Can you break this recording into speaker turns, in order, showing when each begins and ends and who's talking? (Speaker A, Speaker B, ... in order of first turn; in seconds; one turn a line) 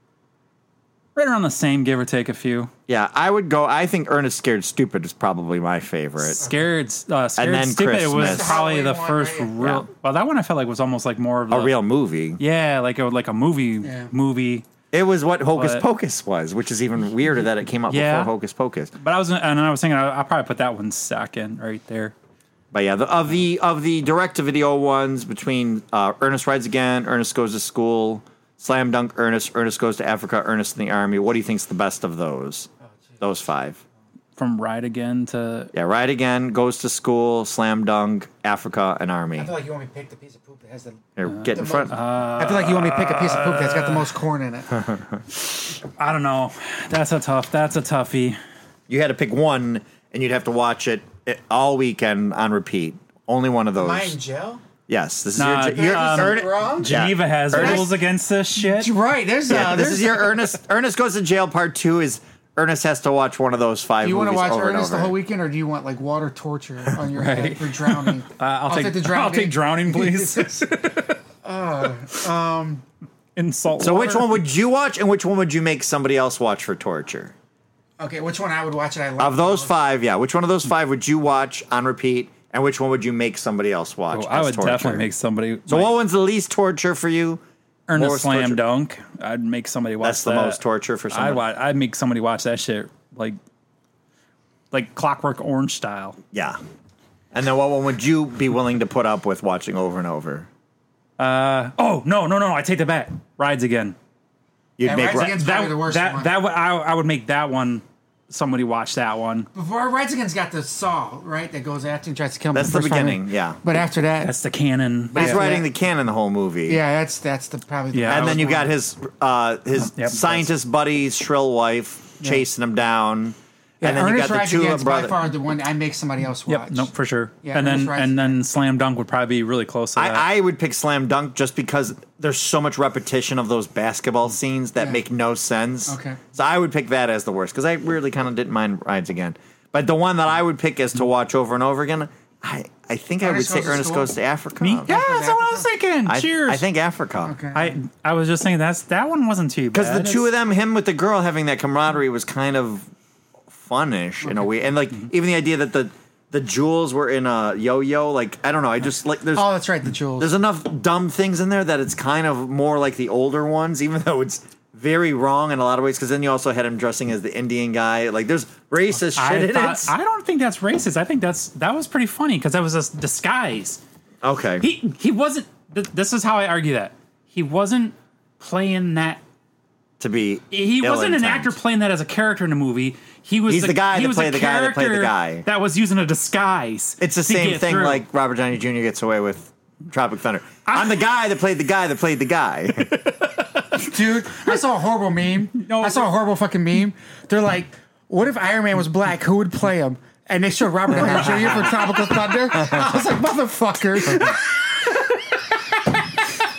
Speaker A: 1.1-2.7
Speaker B: 2.9-6.4
Speaker A: 6.3-11.7
Speaker B: 7.4-8.6
Speaker C: 8.2-9.6
Speaker B: 9.6-9.9
Speaker B: 11.5-12.4
Speaker A: 12.4-14.7
Speaker C: 13.8-14.1
Speaker B: 14.9-18.9
Speaker A: 15.5-15.8
Speaker A: 17.9-18.3
Speaker A: 19.0-22.1
Speaker B: 22.7-32.7
Speaker B: 33.2-33.8
Speaker A: 34.4-35.7
Speaker B: 35.7-39.5
Speaker C: 39.4-44.9
Speaker B: 41.1-42.0
Speaker A: 41.3-44.1
Speaker A: 45.3-48.4
Speaker B: 48.9-54.1
Speaker C: 53.8-54.6
Speaker B: 54.9-58.0
Speaker A: 55.4-58.9
Speaker C: 55.7-57.0
Speaker C: 57.5-57.9
Speaker C: 58.5-60.4
Speaker B: 59.5-65.1
Speaker C: 64.0-72.8
Speaker A: 67.0-71.1
Speaker A: 73.3-74.3
Speaker B: 73.8-77.3
Speaker C: 78.0-79.7
Speaker B: 79.2-85.1
Speaker A: 84.1-85.9
Speaker B: 85.7-87.4
Speaker A: 87.9-93.4
Speaker B: 87.9-88.6
Speaker B: 90.0-91.4
Speaker A: 94.7-96.2
Speaker B: 96.3-96.6
Speaker B: 97.3-100.5
Speaker A: 101.2-104.0
Speaker B: 104.8-105.3
Speaker C: 104.8-106.3
Speaker A: 104.9-109.5
Speaker C: 109.5-114.3
Speaker B: 112.5-113.6
Speaker A: 114.2-115.5
Speaker B: 115.1-116.8
Speaker C: 115.1-115.7
Speaker C: 116.7-118.7
Speaker A: 117.9-118.6
Speaker B: 118.1-125.2
Speaker A: 119.9-120.4
Speaker C: 123.8-126.9
Speaker A: 126.5-130.2
Speaker C: 127.4-128.4
Speaker B: 130.0-144.9
Speaker C: 135.9-136.2
Speaker C: 143.2-144.1
Speaker A: 144.6-146.6
Speaker C: 144.9-145.7
Speaker B: 146.1-147.3
Speaker C: 147.2-147.8
Speaker A: 147.5-150.2
Speaker B: 149.7-152.8
Speaker B: 153.5-159.5
Speaker C: 159.3-160.3
Speaker B: 160.2-169.9
Speaker A: 169.0-173.8
Speaker B: 174.2-174.7
Speaker A: 174.6-179.2
Speaker B: 180.0-181.6
Speaker A: 180.5-188.0
Speaker B: 183.5-185.4
Speaker B: 187.0-193.0
Speaker A: 190.7-190.9
Speaker C: 193.7-204.6
Speaker A: 195.6-196.1